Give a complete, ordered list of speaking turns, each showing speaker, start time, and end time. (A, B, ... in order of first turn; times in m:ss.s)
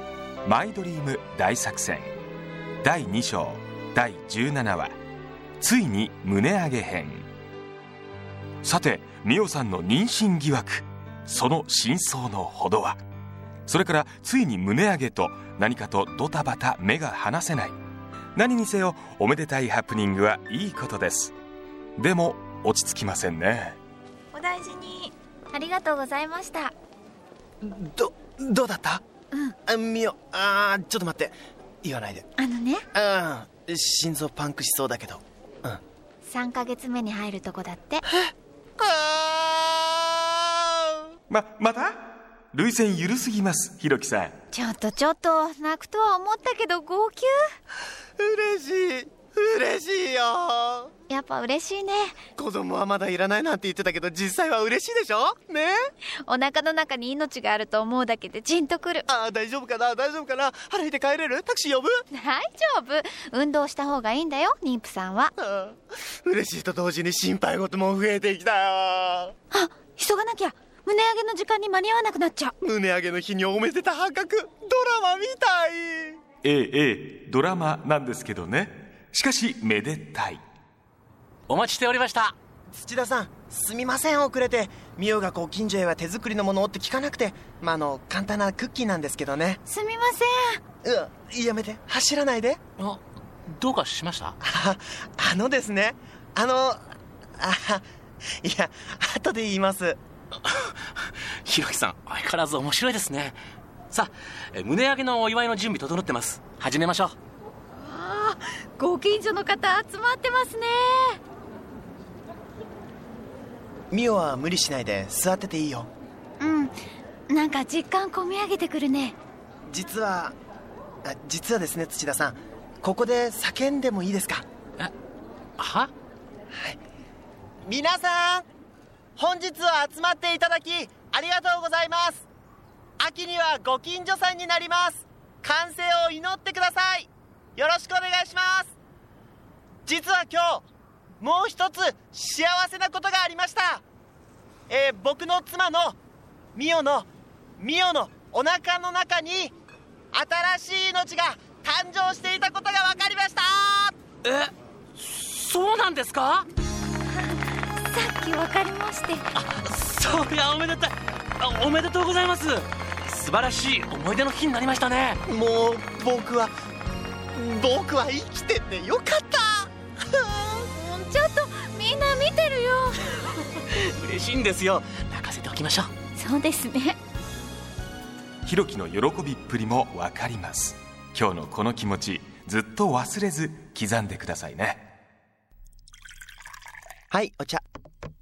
0:00.4-0:02.1 A
0:02.8-0:04.9 A
0:05.6-0:07.3 A
0:08.6-0:13.0 A
0:13.7-0:17.7 A
0:18.3-0:21.3 A
0:22.0-0:23.8 A
0:24.3-0:26.7 B
0:27.6-0:29.0 C
0:29.7-0:32.3 C
0:32.4-0:32.8 B
0:32.9-0:35.8 C
0:36.2-0:38.0 B
0:38.1-0:41.0 C
0:41.3-0:44.3 A
0:44.5-0:47.4 B
0:48.2-0:50.9 C
0:51.1-0:52.2 B
0:52.4-0:55.9 C
0:56.2-0:59.0 B
0:59.1-1:02.0 C
1:02.1-1:05.3 B
1:05.4-1:09.3 C
1:09.5-1:12.5 B
1:12.6-1:16.2 C
1:16.4-1:20.4 A
1:21.5-1:22.3 D
1:22.7-1:29.6 C
1:29.7-1:30.6 B
1:30.8-1:32.6 C
1:32.8-1:34.4 D
1:34.4-1:36.8 C
1:37.4-1:37.8 C
1:38.4-1:40.0 C
1:40.4-1:40.7 D
1:41.4-1:43.4 D
1:43.9-1:47.2 D
1:47.8-1:51.2 B
1:53.9-1:55.9 C
1:56.4-1:56.7 B
1:57.3-1:59.2 B
1:59.7-2:00.3 C
2:01.0-2:04.4 C
2:05.6-2:05.9 D
2:06.5-2:06.8 C
2:07.6-2:08.5 C
2:09.2-2:12.2 C
2:13.0-2:18.7 C
2:19.8-2:20.6 C
2:21.2-2:23.8 C
2:24.7-2:26.0 C
2:26.5-2:29.5 C
2:30.1-2:33.9 C
2:34.2-2:36.5 D
2:37.1-2:39.3 B
2:39.4-2:45.2 D
2:45.3-2:46.5 C
2:47.3-2:50.6 C
2:50.7-2:53.1 B
2:53.2-2:55.9 D
2:56.1-2:57.0 B
2:58.4-3:04.9 A
3:07.1-3:07.6 C